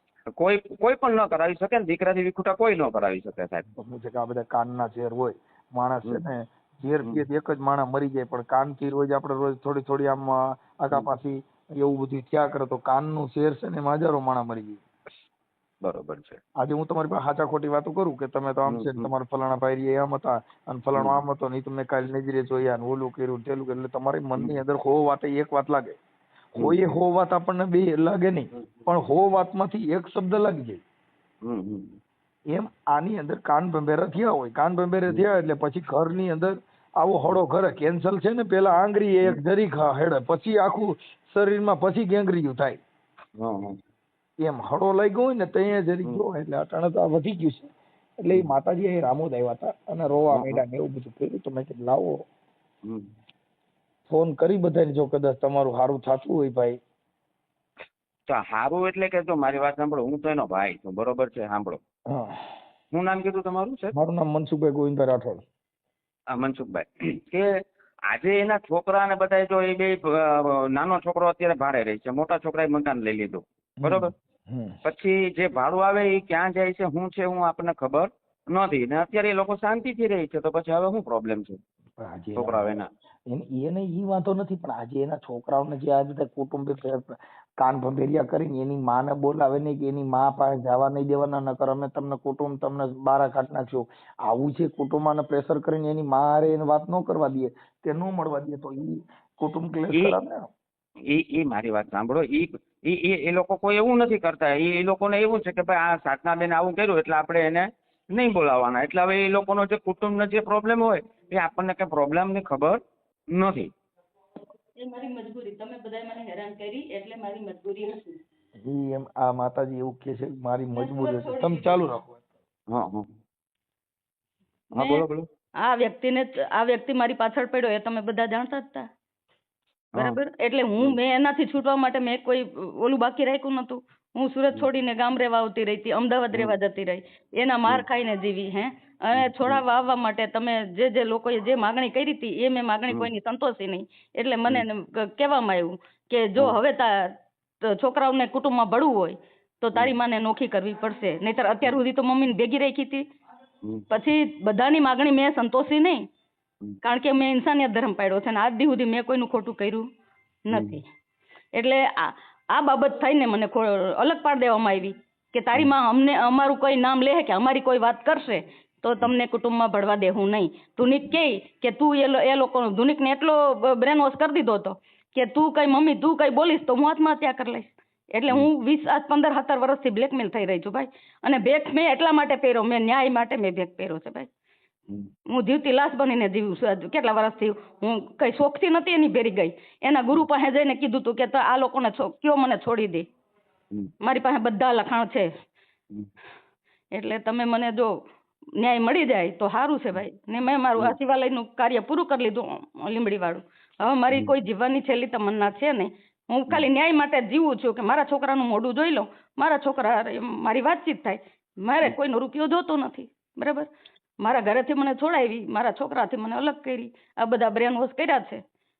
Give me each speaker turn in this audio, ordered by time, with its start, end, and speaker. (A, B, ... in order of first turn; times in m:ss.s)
0:00.4-0:03.7 A
0:03.8-0:14.8 B
0:15.8-0:16.4 A
0:16.6-0:26.0 B
0:18.7-0:19.1 A
0:21.0-0:21.2 A
0:26.6-0:30.8 B
0:31.4-0:32.0 A
0:32.5-0:42.8 B
0:43.4-0:43.8 A
0:44.4-0:47.7 B
0:48.2-0:52.2 B
0:50.3-0:50.6 A
0:54.1-0:56.8 B
0:58.3-1:01.8 A
1:02.1-1:02.5 B
1:02.9-1:04.0 A
1:04.0-1:05.4 B
1:06.3-1:07.5 A
1:08.1-1:14.1 A
1:13.8-1:14.8 B
1:14.8-1:21.6 A
1:22.0-1:22.7 B
1:22.4-1:22.9 A
1:23.3-1:40.5 B
1:39.9-1:40.2 A
1:41.1-1:53.7 A
1:54.8-1:58.2 C
1:58.6-2:02.2 B
2:00.7-2:01.9 C
2:02.7-2:03.1 A
2:04.7-2:05.0 C
2:04.7-2:05.3 A
2:05.6-2:08.9 C
2:10.0-2:27.1 C
2:19.2-2:19.6 A
2:27.6-2:33.0 C
2:33.9-2:36.0 C
2:36.8-2:39.9 C
2:40.5-2:40.8 C
2:40.5-2:40.8 A
2:41.6-3:04.3 C
3:05.3-3:13.1 C
3:14.0-3:15.3 C
3:16.9-3:17.9 C
3:18.6-3:33.7 C
3:34.2-3:38.4 C